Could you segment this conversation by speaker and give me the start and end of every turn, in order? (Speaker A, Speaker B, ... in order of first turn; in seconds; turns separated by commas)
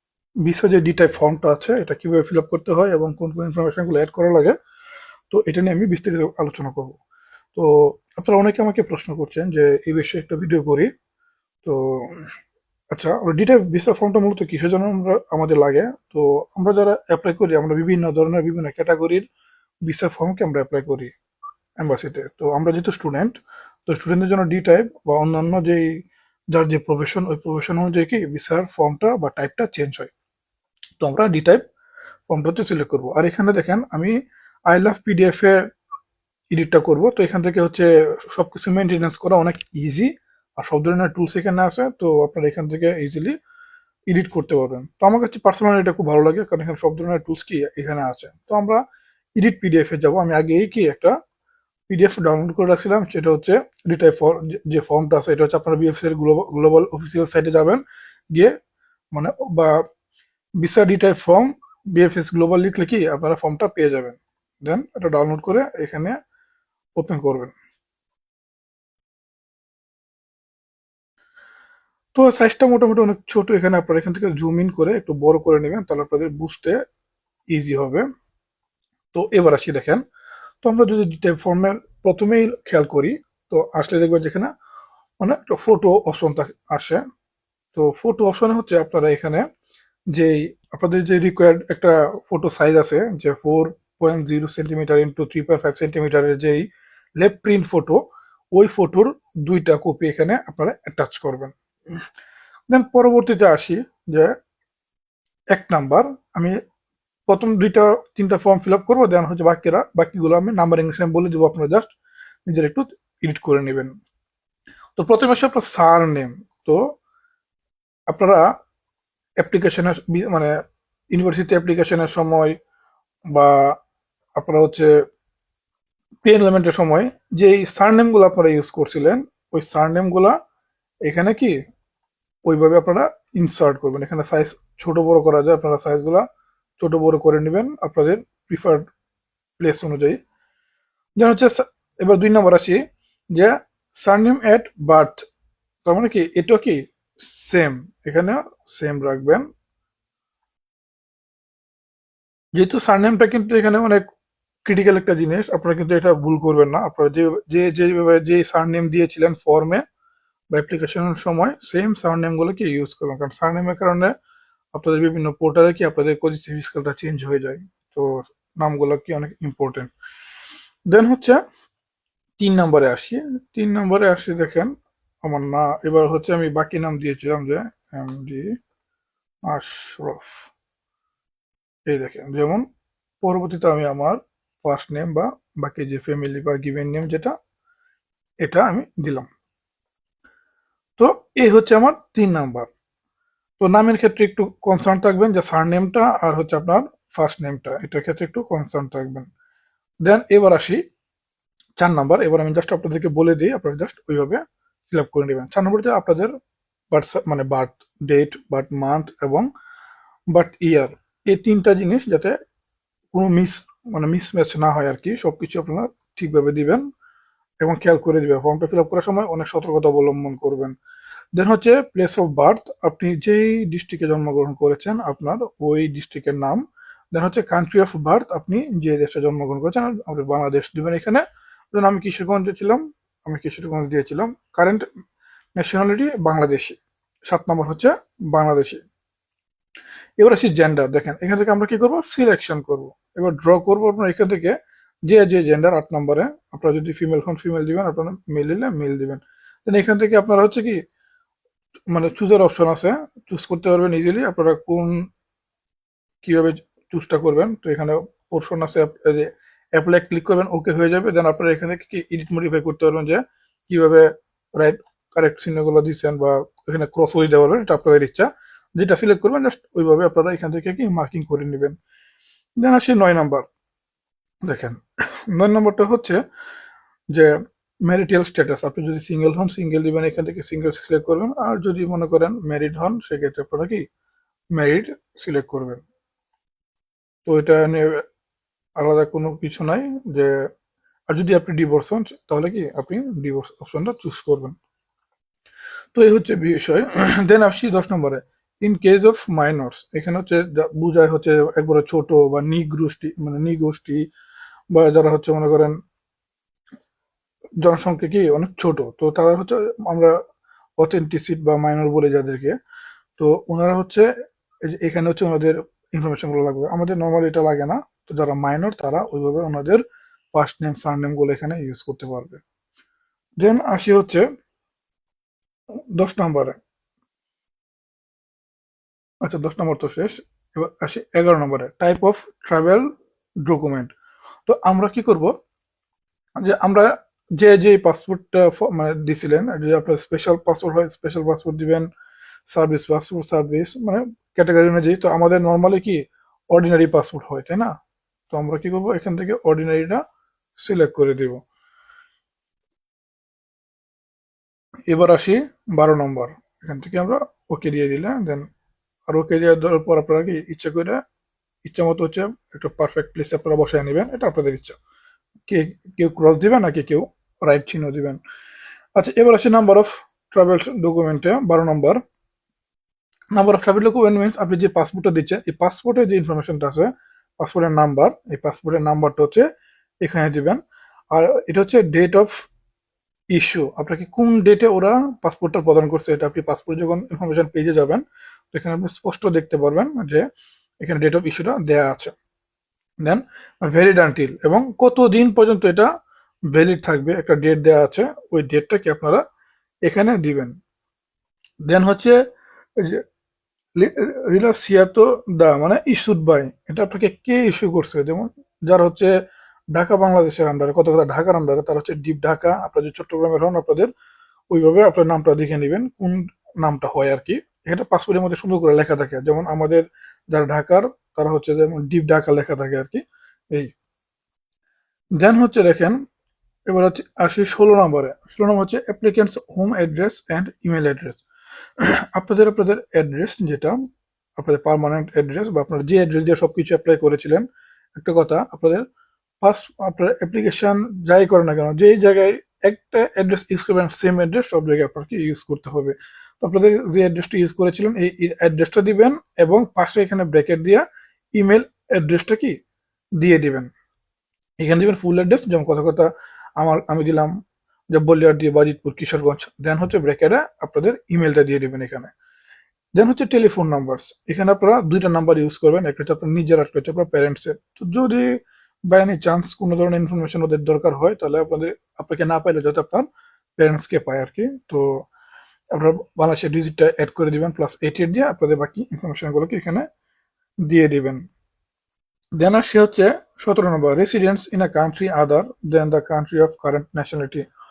Speaker A: 0.4-4.5, Speaker A: 5.3-7.0, Speaker A: 7.5-10.9, Speaker A: 11.6-12.3, Speaker A: 12.9-19.2, Speaker A: 19.9-21.1, Speaker A: 21.8-23.4, Speaker A: 23.9-25.9, Speaker A: 26.5-30.1, Speaker A: 31.0-31.6, Speaker A: 32.3-34.1, Speaker A: 34.7-35.6, Speaker A: 36.5-43.3, Speaker A: 44.1-48.8, Speaker A: 49.4-51.1, Speaker A: 51.9-57.8, Speaker A: 59.1-59.7, Speaker A: 60.6-66.2, Speaker A: 67.0-67.5, Speaker A: 72.1-76.8, Speaker A: 77.5-78.0, Speaker A: 79.1-80.0, Speaker A: 80.6-84.5, Speaker A: 85.2-87.0, Speaker A: 87.7-89.5, Speaker A: 90.1-96.7, Speaker A: 97.2-98.0, Speaker A: 98.5-101.5, Speaker A: 102.7-104.3, Speaker A: 105.5-106.6, Speaker A: 107.3-111.9, Speaker A: 112.5-113.9, Speaker A: 115.0-116.8, Speaker A: 118.1-118.4, Speaker A: 119.4-120.5, Speaker A: 121.1-122.5, Speaker A: 123.3-123.7, Speaker A: 124.3-124.9, Speaker A: 126.2-130.3, Speaker A: 131.1-131.5, Speaker A: 132.4-136.2, Speaker A: 136.8-138.8, Speaker A: 139.6-140.2, Speaker A: 141.2-142.8, Speaker A: 143.3-145.2, Speaker A: 145.8-149.4, Speaker A: 152.6-154.0, Speaker A: 154.6-159.8, Speaker A: 160.5-164.1, Speaker A: 164.7-169.9, Speaker A: 170.9-171.4, Speaker A: 172.4-174.7, Speaker A: 175.2-178.5, Speaker A: 179.5-180.5, Speaker A: 181.9-182.6, Speaker A: 183.2-187.3, Speaker A: 188.4-189.3, Speaker A: 191.0-192.7, Speaker A: 193.6-199.3, Speaker A: 200.0-200.8, Speaker A: 201.8-206.3, Speaker A: 206.9-209.5, Speaker A: 210.3-212.3, Speaker A: 213.1-216.8, Speaker A: 217.6-220.8, Speaker A: 221.3-226.6, Speaker A: 227.1-234.8, Speaker A: 235.6-238.8, Speaker A: 240.2-244.5, Speaker A: 245.1-250.8, Speaker A: 251.9-255.1, Speaker A: 256.2-271.8, Speaker A: 272.6-273.5, Speaker A: 274.4-276.2, Speaker A: 277.9-283.8, Speaker A: 284.5-285.8, Speaker A: 287.2-288.0, Speaker A: 288.8-290.4, Speaker A: 291.1-294.6, Speaker A: 295.9-304.0, Speaker A: 304.7-305.8, Speaker A: 307.6-310.1, Speaker A: 310.8-312.5, Speaker A: 313.2-314.1, Speaker A: 314.6-319.8, Speaker A: 320.3-322.4, Speaker A: 323.4-324.2, Speaker A: 325.9-326.6, Speaker A: 329.2-332.9, Speaker A: 333.4-333.9, Speaker A: 334.5-335.3, Speaker A: 336.4-341.9, Speaker A: 342.5-346.0, Speaker A: 346.5-347.7, Speaker A: 348.3-350.0, Speaker A: 350.6-351.4, Speaker A: 354.9-358.4, Speaker A: 359.1-361.0, Speaker A: 361.6-364.8, Speaker A: 365.5-368.2, Speaker A: 368.9-372.0, Speaker A: 373.3-379.4, Speaker A: 380.0-380.6, Speaker A: 381.1-382.5, Speaker A: 383.3-390.2, Speaker A: 390.8-392.1, Speaker A: 393.0-395.9, Speaker A: 396.5-399.2, Speaker A: 399.9-400.5, Speaker A: 401.7-402.2, Speaker A: 403.8-409.1, Speaker A: 409.7-413.9, Speaker A: 414.5-423.7, Speaker A: 425.2-426.0, Speaker A: 426.7-431.2, Speaker A: 431.8-433.8, Speaker A: 434.4-438.9, Speaker A: 439.4-450.8, Speaker A: 451.4-452.6, Speaker A: 453.2-453.7, Speaker A: 454.6-457.3, Speaker A: 457.9-462.1, Speaker A: 462.9-468.3, Speaker A: 468.9-473.1, Speaker A: 473.6-475.1, Speaker A: 475.7-479.9, Speaker A: 480.6-481.2, Speaker A: 482.4-487.4